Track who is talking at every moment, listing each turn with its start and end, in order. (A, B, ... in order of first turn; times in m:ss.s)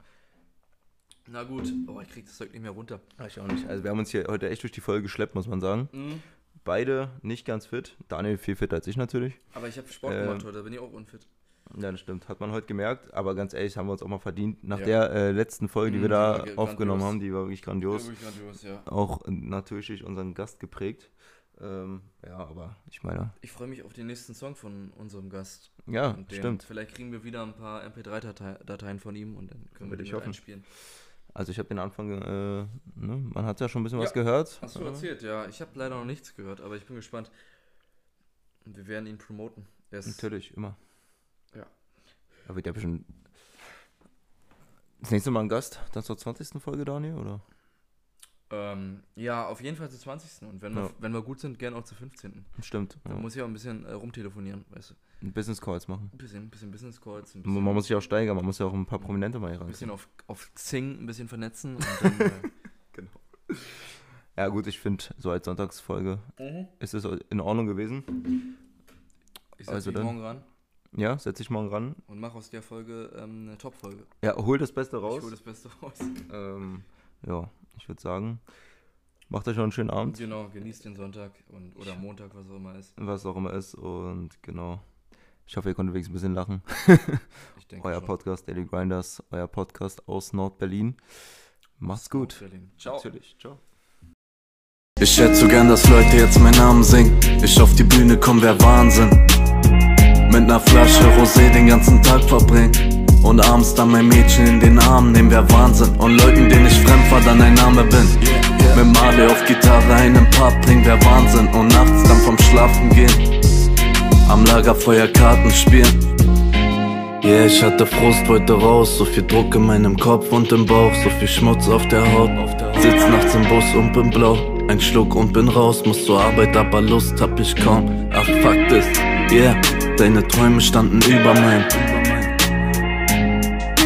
0:01.2-0:03.0 A
0:03.2-0:06.1 B
0:05.9-0:06.2 A
0:06.6-0:09.4 B
0:09.5-0:11.3 A
0:10.0-0:10.5 B
0:11.7-0:18.1 B
0:14.7-0:15.0 A
0:15.8-0:17.2 A
0:17.9-0:18.8 A
0:18.8-0:23.4 B
0:23.4-0:30.6 A
0:25.8-0:26.6 B
0:29.8-0:30.4 B
0:31.3-0:35.1 B
0:34.0-0:37.3 A
0:38.6-0:40.2 A
0:40.0-0:40.8 B
0:42.4-0:43.1 B
0:45.0-0:47.4 B
0:48.5-0:52.5 A
0:52.6-0:53.2 B
0:53.0-0:55.0 A
0:55.2-0:56.1 B
0:56.1-0:57.8 A
0:57.4-0:59.9 B
0:59.7-1:02.5 A
1:02.0-1:08.3 B
1:06.4-1:06.7 A
1:09.6-1:10.5 A
1:09.6-1:10.2 B
1:10.9-1:12.0 B
1:12.1-1:14.1 A
1:14.2-1:15.3 B
1:15.0-1:16.2 A
1:16.3-1:18.4 B
1:19.3-1:20.3 B
1:20.1-1:22.9 A
1:23.0-1:24.8 B
1:25.5-1:27.3 B
1:27.5-1:28.1 A
1:27.8-1:31.0 B
1:31.8-1:33.6 B
1:31.9-1:33.1 A
1:35.0-1:39.2 C
1:40.3-1:53.4 C
1:54.2-1:56.1 C
1:57.2-2:12.4 C